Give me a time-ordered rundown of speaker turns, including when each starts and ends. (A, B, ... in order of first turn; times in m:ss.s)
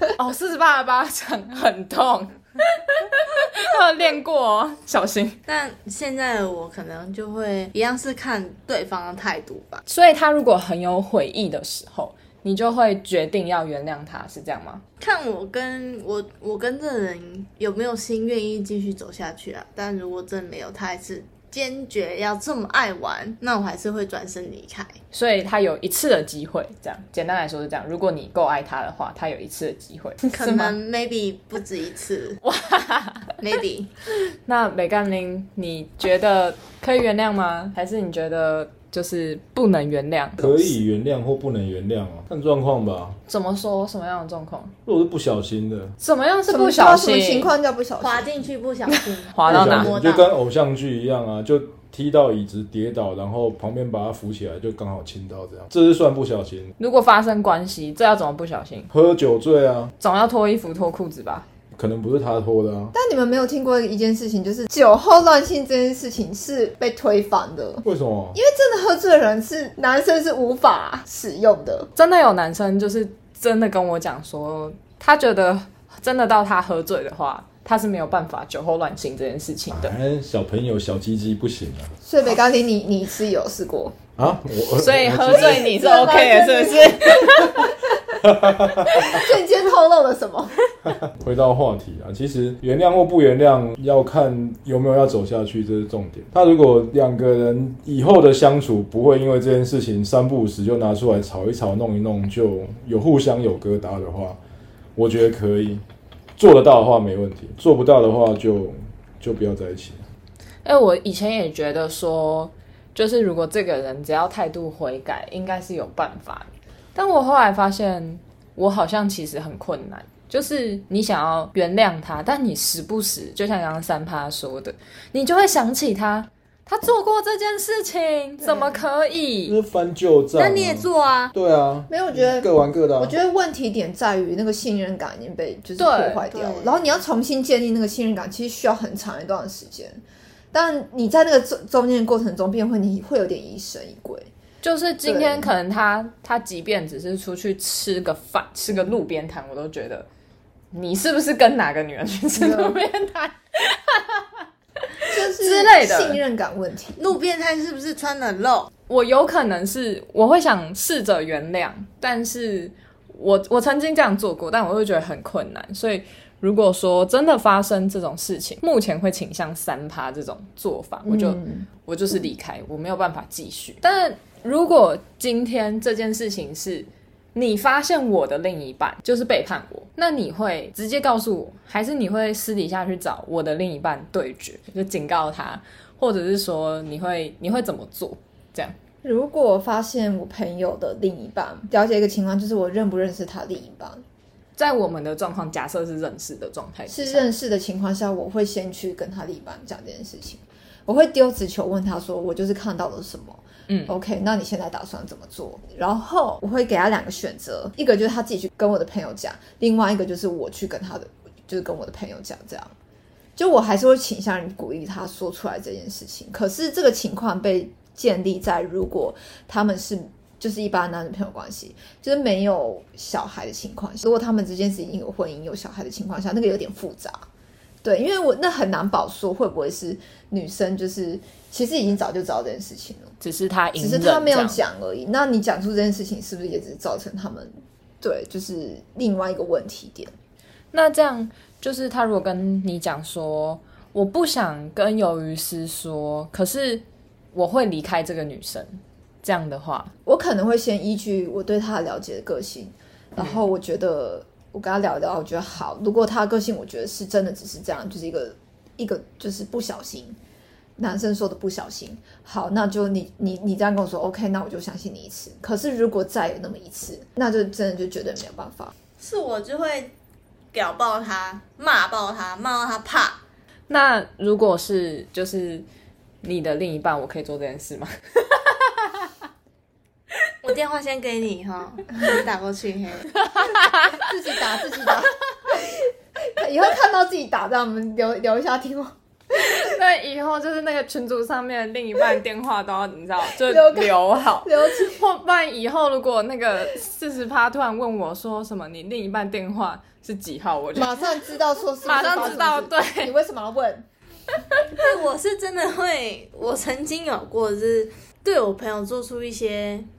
0:00.2-0:05.4 A
0:05.5-0:09.8 B
0:09.9-0:14.8 A
0:15.0-0:24.9 B
0:25.1-0:30.7 A
0:30.3-0:32.4 B
0:32.4-0:33.3 A
0:33.4-0:33.9 B
0:34.4-0:40.8 A
0:40.4-0:43.2 C
0:43.3-0:44.7 A
0:44.8-0:45.9 C
0:46.0-0:47.5 A
0:46.5-0:48.3 D
0:48.0-0:50.3 B
0:48.9-0:49.9 A
0:49.5-0:56.7 C
0:56.8-0:58.9 A
0:58.9-0:59.9 C
1:00.0-1:01.4 A
1:01.8-1:02.9 C
1:02.9-1:11.9 D
1:07.8-1:08.4 C
1:12.0-1:19.9 A
1:19.7-1:21.9 C
1:22.0-1:24.0 D
1:24.2-1:25.8 C
1:24.8-1:27.7 A
1:25.5-1:30.6 D
1:28.2-1:29.2 C
1:30.8-1:44.4 C
1:45.0-1:45.8 C
1:46.4-1:50.0 C
1:50.6-2:09.5 A
2:08.4-2:08.8 D
2:09.5-2:13.2 C
2:10.3-2:11.3 B
2:11.9-2:20.0 D
2:15.8-2:16.2 A
2:16.3-2:17.0 B
2:20.5-2:24.3 D
2:24.6-2:30.1 A
2:25.0-2:25.5 D
2:30.7-2:34.2 A
2:32.4-2:32.8 D
2:34.9-2:36.2 A
2:35.1-2:37.0 D
2:37.0-2:38.7 B
2:38.9-3:08.8 A
2:51.0-2:51.7 D
3:09.0-3:14.0 D
3:14.6-3:17.3 A
3:16.9-3:32.7 D
3:23.7-3:23.9 A
3:33.4-3:47.2 D
3:47.8-3:53.1 D
3:53.2-3:54.6 A
3:53.8-4:00.1 D
4:00.7-4:09.9 A
4:10.0-4:20.2 D
4:20.8-4:28.7 D
4:29.0-4:29.9 B
4:30.5-4:33.2 B
4:33.7-4:35.6 A
4:36.2-4:37.9 A
4:40.4-4:43.1 B
4:43.4-4:44.0 A
4:43.9-4:48.9 D
4:49.4-5:01.0 A
4:53.4-4:55.0 D
5:00.7-5:03.8 D
5:01.8-5:03.1 A
5:04.7-5:09.9 B